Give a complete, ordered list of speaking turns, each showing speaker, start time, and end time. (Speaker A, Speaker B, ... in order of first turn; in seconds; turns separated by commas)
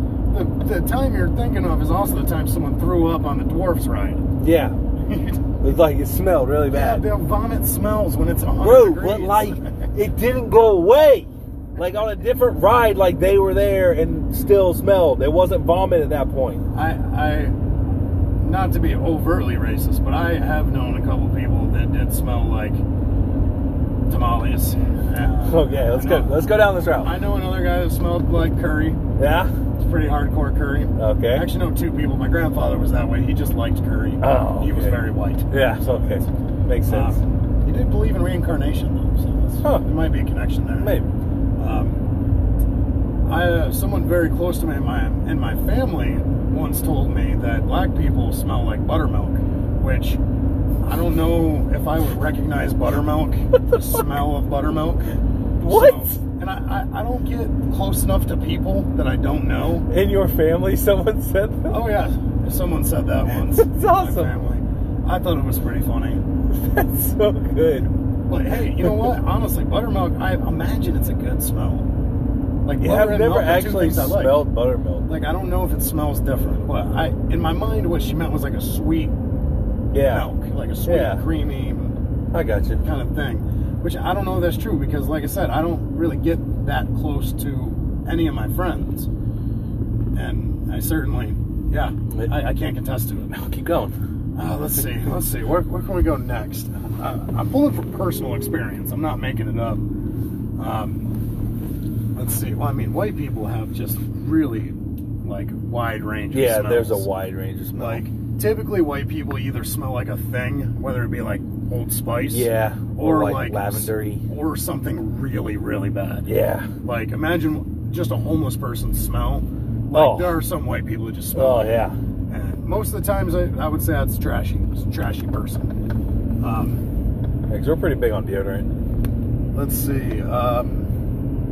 Speaker A: 0.3-4.3, Speaker B: 4.4-4.8, Speaker A: 5.0-5.5, Speaker B: 5.6-7.0, Speaker A: 6.7-9.9, Speaker B: 8.6-16.6, Speaker A: 16.7-17.6, Speaker A: 18.4-22.8, Speaker A: 24.1-29.0, Speaker B: 25.4-27.1, Speaker B: 29.2-29.5, Speaker A: 29.8-35.5, Speaker B: 31.0-31.5, Speaker B: 34.2-37.2, Speaker A: 36.9-40.9, Speaker B: 40.8-41.1, Speaker A: 41.6-42.0, Speaker A: 43.2-50.2, Speaker A: 50.8-59.9, Speaker B: 53.5-54.1, Speaker B: 55.6-56.2, Speaker B: 59.9-61.8, Speaker A: 61.7-66.2, Speaker B: 63.4-64.4, Speaker B: 66.5-67.9, Speaker A: 68.3-71.9, Speaker B: 68.6-69.1, Speaker A: 72.7-74.5, Speaker B: 72.8-75.1, Speaker A: 75.1-79.1, Speaker B: 79.9-80.3, Speaker A: 80.0-82.0, Speaker B: 80.8-81.2, Speaker B: 82.3-82.8, Speaker A: 82.8-89.1, Speaker A: 90.1-93.3, Speaker B: 93.3-94.0, Speaker A: 94.3-99.8, Speaker A: 100.6-101.1, Speaker A: 102.2-107.1, Speaker B: 106.3-108.0, Speaker A: 107.8-116.3, Speaker B: 112.3-114.2, Speaker B: 116.3-116.7, Speaker A: 116.8-125.7, Speaker B: 119.9-120.4, Speaker B: 121.3-122.0, Speaker A: 126.4-126.8, Speaker B: 127.5-128.7, Speaker A: 129.5-130.9